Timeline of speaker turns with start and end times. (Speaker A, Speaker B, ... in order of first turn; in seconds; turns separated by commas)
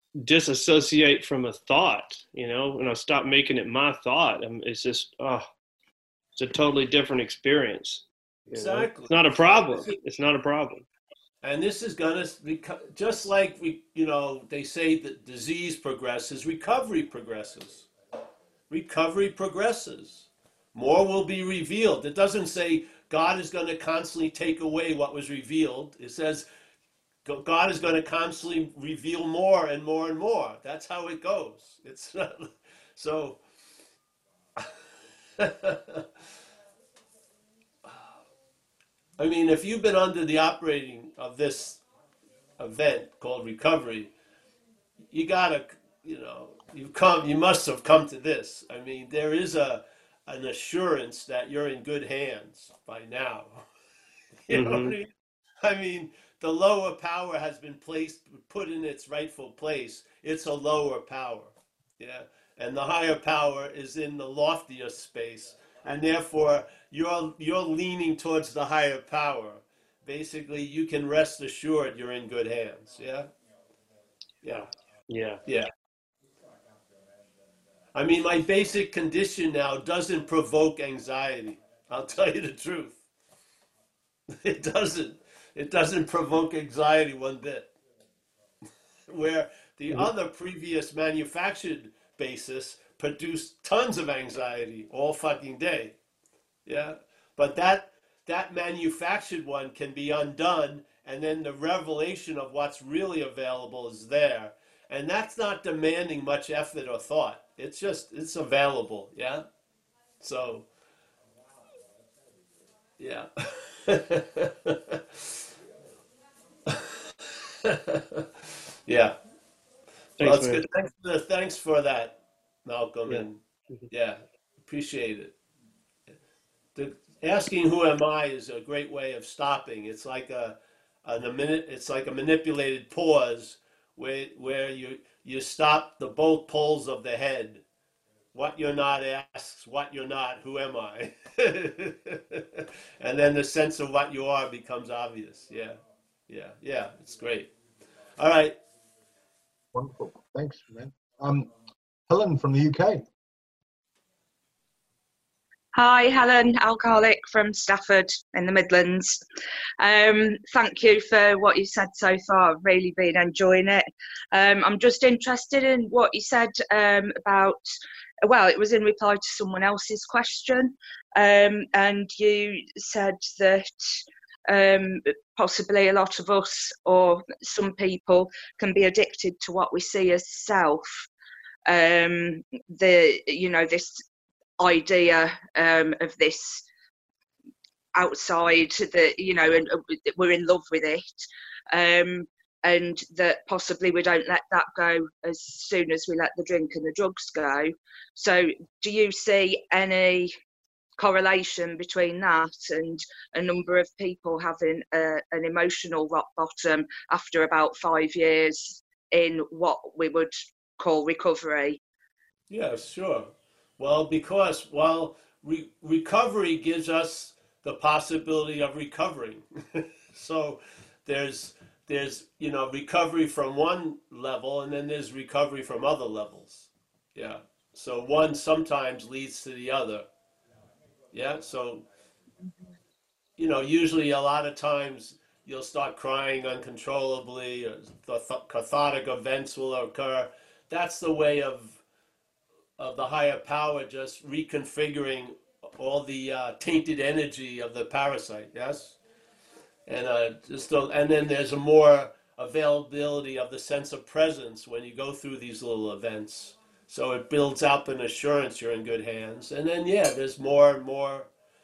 Speaker A: 0.2-5.5, Speaker A: 6.3-10.8, Speaker B: 8.5-10.0, Speaker B: 11.4-17.9, Speaker B: 18.7-26.5, Speaker B: 27.2-33.4, Speaker B: 35.4-36.0, Speaker B: 39.2-41.8, Speaker B: 42.6-44.1, Speaker B: 45.1-53.6, Speaker B: 54.4-73.3, Speaker A: 54.5-55.0, Speaker B: 74.4-74.7, Speaker A: 75.1-75.4, Speaker B: 75.4-75.7, Speaker B: 77.9-83.0, Speaker B: 84.3-87.7, Speaker B: 89.1-95.9, Speaker B: 96.7-109.5, Speaker B: 110.2-110.7, Speaker B: 113.0-115.0, Speaker B: 116.7-117.0, Speaker B: 117.6-118.2, Speaker B: 118.8-119.2, Speaker A: 120.2-120.7, Speaker B: 120.2-125.3, Speaker A: 123.1-123.9, Speaker B: 126.7-137.6, Speaker B: 138.3-145.8, Speaker B: 146.3-147.5, Speaker B: 148.2-148.5, Speaker C: 149.7-151.5, Speaker C: 152.1-153.0, Speaker D: 155.7-159.2, Speaker D: 159.8-167.6, Speaker D: 168.2-181.1, Speaker D: 181.7-184.0, Speaker D: 184.6-186.6, Speaker D: 187.9-191.1, Speaker D: 191.7-200.3, Speaker D: 201.0-211.8, Speaker B: 212.5-230.1, Speaker B: 231.1-231.8, Speaker B: 233.4-241.8, Speaker B: 242.8-249.0, Speaker B: 249.9-261.3